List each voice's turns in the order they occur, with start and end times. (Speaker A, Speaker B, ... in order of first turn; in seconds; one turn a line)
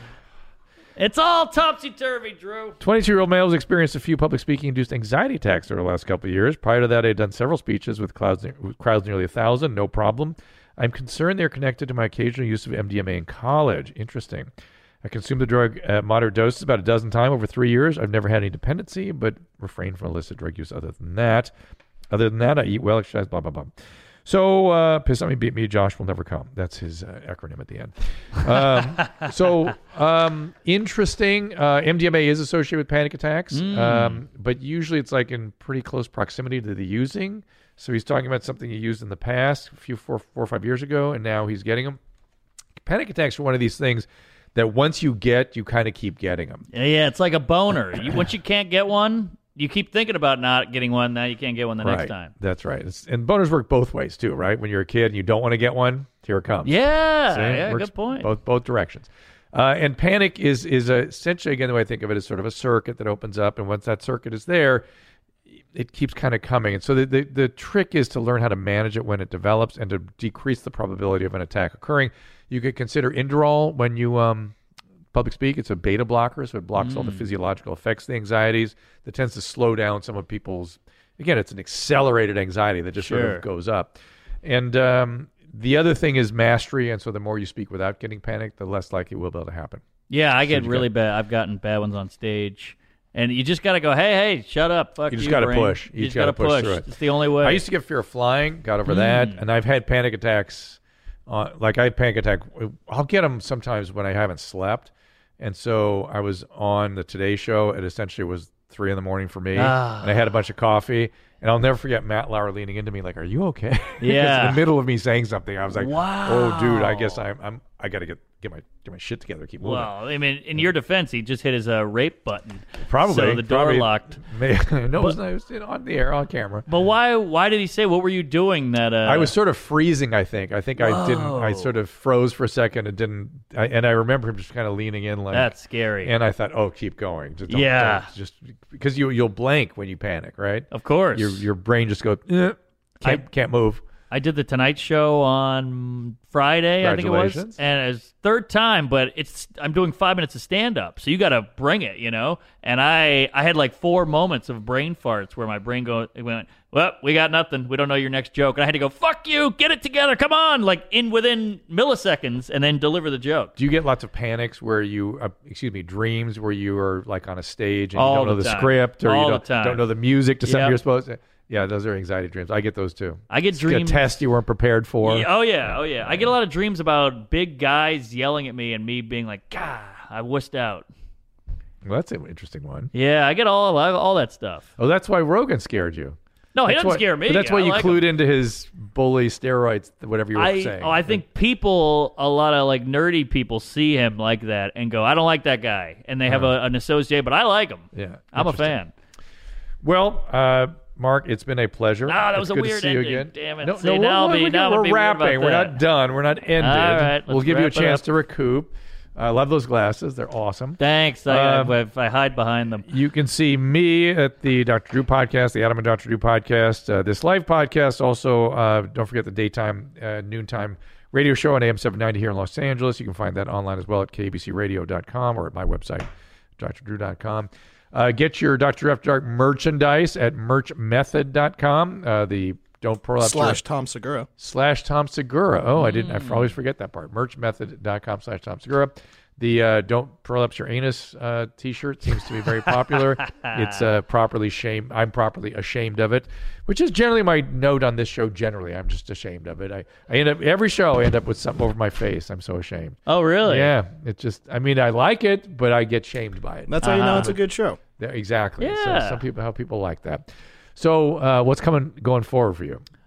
Speaker A: 1.0-2.8
Speaker B: 2.8-14.5
Speaker B: 15.0-21.5
Speaker B: 22.1-23.7
Speaker B: 24.2-42.0
Speaker A: 33.5-34.2
Speaker B: 42.8-46.7
Speaker A: 46.7-52.3
Speaker B: 47.7-48.3
Speaker B: 51.8-64.9
Speaker A: 56.6-58.3
Speaker B: 65.7-74.5
Speaker B: 75.1-89.8
Speaker A: 76.8-77.2
Speaker A: 83.0-83.4
Speaker A: 90.1-97.6
Speaker B: 90.4-90.9
Speaker B: 95.1-96.9
Speaker B: 97.4-119.9
Speaker A: 98.9-99.4
Speaker A: 109.5-110.3
Speaker A: 114.0-114.6
Speaker A: 115.7-117.2
Speaker A: 119.6-124.2
Speaker B: 122.8-126.7
Speaker A: 126.7-129.3
Speaker B: 129.0-143.8
Speaker A: 130.8-131.8
Speaker A: 135.3-136.1
Speaker A: 137.5-138.1
Speaker A: 140.7-141.4
Speaker A: 144.1-163.6
Speaker B: 146.8-147.6
Speaker B: 163.6-176.3
Speaker A: 167.9-169.8
Speaker A: 170.4-170.8
Speaker A: 173.3-174.0
Speaker A: 175.0-180.9
Speaker B: 181.8-182.9
Speaker A: 182.9-184.7
Speaker B: 184.8-191.2
Speaker A: 186.5-188.1
Speaker A: 190.3-198.9
Speaker B: 196.3-196.5
Speaker B: 197.9-198.8
Speaker B: 199.8-211.8
Speaker A: 202.1-205.8
Speaker A: 206.6-208.1
Speaker A: 210.8-212.9
Speaker B: 212.9-233.6
Speaker C: 233.2-234.3
Speaker B: 234.4-257.4
Speaker A: 235.8-236.5
Speaker A: 243.2-243.6
Speaker A: 253.1-253.7
Speaker C: 256.7-257.8
Speaker A: 256.8-257.4
Speaker B: 258.0-262.8
Speaker A: 258.6-259.2